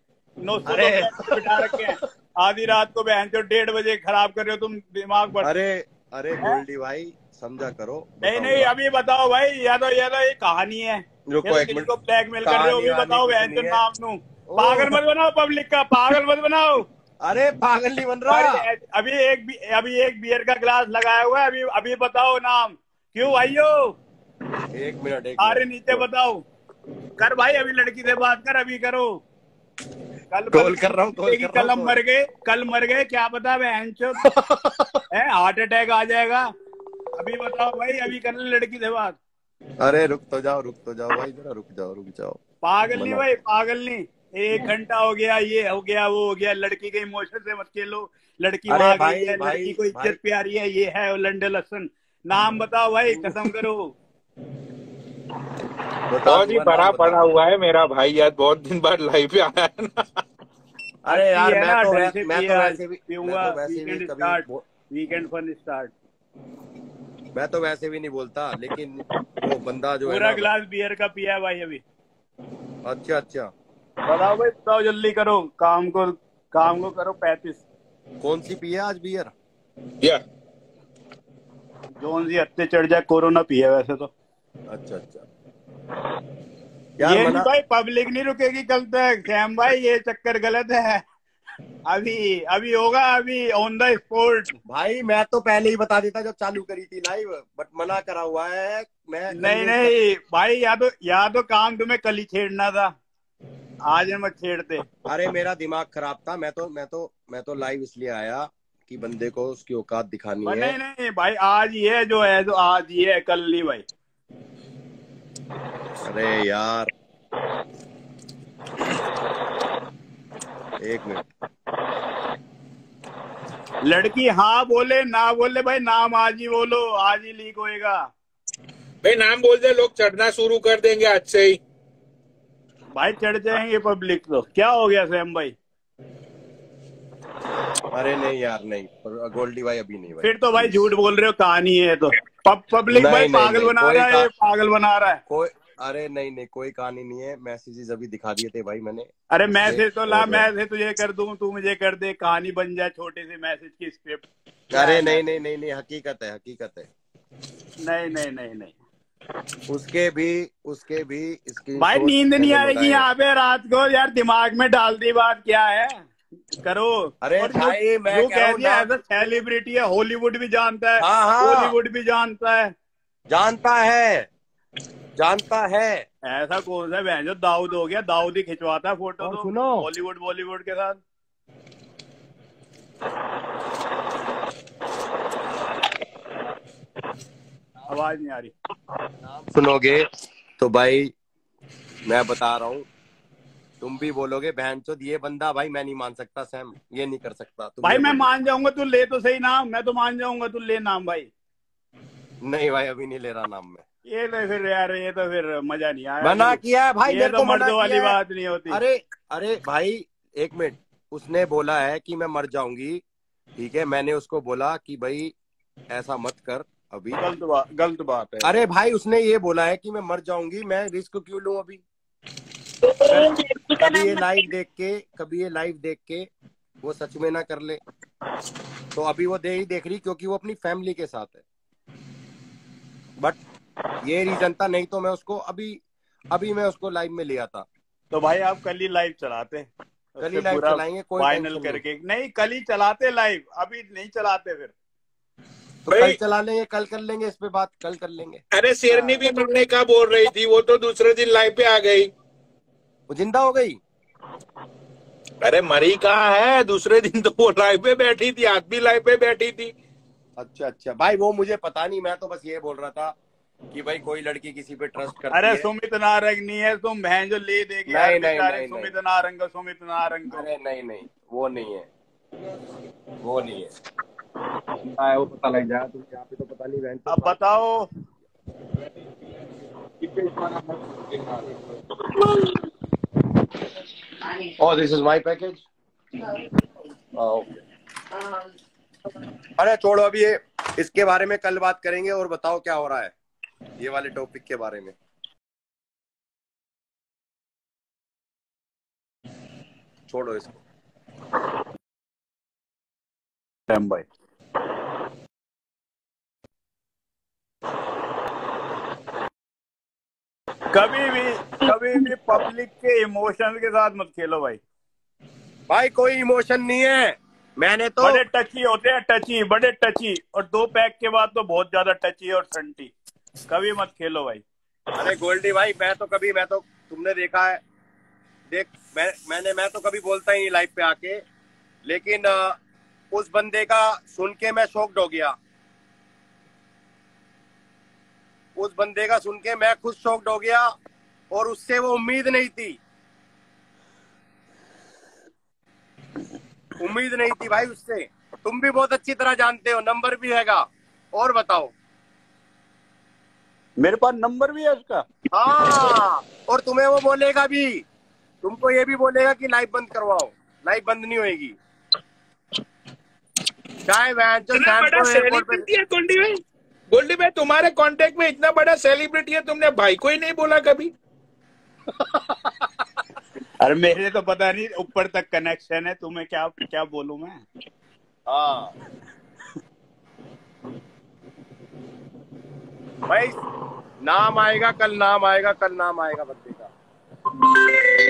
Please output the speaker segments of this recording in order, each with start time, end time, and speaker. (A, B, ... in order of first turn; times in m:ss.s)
0:00.4-0:05.5 A
0:00.7-0:01.8 B
0:05.4-0:08.7 B
0:08.2-0:16.8 A
0:11.3-0:11.9 B
0:12.4-0:13.8 B
0:14.5-0:15.0 B
0:17.2-0:18.6 B
0:18.3-0:23.9 A
0:24.7-0:26.0 B
0:25.4-0:26.4 A
0:27.2-0:29.2 A
0:30.3-0:34.2 A
0:30.5-0:32.0 B
0:34.2-0:35.0 B
0:35.1-0:36.4 A
0:37.2-0:39.2 A
0:39.8-0:42.4 B
0:42.6-0:53.9 A
0:42.9-0:43.2 B
0:48.7-0:50.2 B
0:56.1-0:57.2 B
0:56.2-1:00.2 C
1:01.0-1:04.4 B
1:01.1-1:05.9 A
1:07.3-1:10.5 B
1:10.0-1:11.8 A
1:12.8-1:13.5 B
1:14.1-1:17.6 A
1:18.2-1:19.3 B
1:22.0-1:24.1 A
1:24.7-1:25.2 B
1:27.0-1:27.5 B
1:27.0-1:31.0 A
1:31.9-1:34.6 A
1:34.7-1:39.9 B
1:39.3-1:42.9 A
1:43.9-1:44.9 A
1:45.0-1:50.8 B
1:50.4-1:53.8 A
1:56.0-1:56.9 B
2:00.8-2:01.3 B
2:03.8-2:08.0 A
2:09.0-2:11.6 C
2:12.9-2:15.5 A
2:17.9-2:20.8 B
2:20.2-2:25.2 A
2:22.9-2:24.3 B
2:25.3-2:29.1 B
2:29.3-2:35.2 A
2:29.6-2:30.5 B
2:34.7-2:36.9 B
2:37.8-2:38.7 A
2:39.7-2:43.1 B
2:41.8-2:46.0 A
2:46.6-2:52.7 A
2:47.2-2:48.9 B
2:51.0-2:51.7 B
2:53.3-2:54.3 B
2:55.2-2:56.0 B
2:56.2-3:01.0 A
2:59.2-2:59.9 B
3:07.9-3:08.5 A
3:09.2-3:10.0 B
3:10.6-3:11.1 B
3:12.1-3:12.9 B
3:13.8-3:18.3 B
3:17.8-3:21.3 A
3:22.4-3:23.8 B
3:24.1-3:28.8 A
3:26.2-3:28.2 B
3:28.7-3:33.0 B
3:33.6-3:35.3 B
3:35.9-3:37.2 B
3:37.2-3:38.5 A
3:38.4-3:41.8 B
3:43.0-3:46.3 B
3:46.8-3:47.8 B
3:48.9-3:51.4 B
3:54.0-3:55.8 B
3:56.3-3:57.6 B
3:58.1-4:04.7 A
4:00.2-4:01.8 B
4:05.8-4:08.4 B
4:05.9-4:06.2 C
4:08.5-4:12.1 C
4:13.1-4:13.8 B
4:15.4-4:19.7 C
4:20.4-4:23.1 B
4:23.7-4:25.7 B
4:25.3-4:30.4 A
4:27.9-4:28.9 B
4:30.3-4:31.9 B
4:33.2-4:33.7 B
4:34.9-4:37.6 B
4:37.1-4:37.8 A
4:40.0-4:41.8 C
4:44.6-4:45.7 B
4:47.1-4:47.6 B
4:49.6-4:53.1 B
4:53.8-4:54.9 B
5:00.1-5:00.6 B
5:03.7-5:04.0 A
5:10.7-5:14.6 A
5:15.7-5:18.2 B
5:18.0-5:22.9 A
5:23.5-5:24.4 A
5:24.9-5:27.6 B
5:28.5-5:31.2 B
5:31.8-5:32.6 B
5:33.1-5:35.4 B
5:38.6-5:40.7 B
5:41.3-5:42.8 B
5:46.8-5:51.7 B
5:53.8-5:55.0 A
5:55.3-5:57.8 B
5:58.4-6:01.6 B
6:03.8-6:05.7 B
6:04.5-6:10.9 C
6:12.1-6:12.4 B
6:13.6-6:17.4 A
6:18.3-6:18.7 B
6:23.1-6:23.4 B
6:24.0-6:26.7 B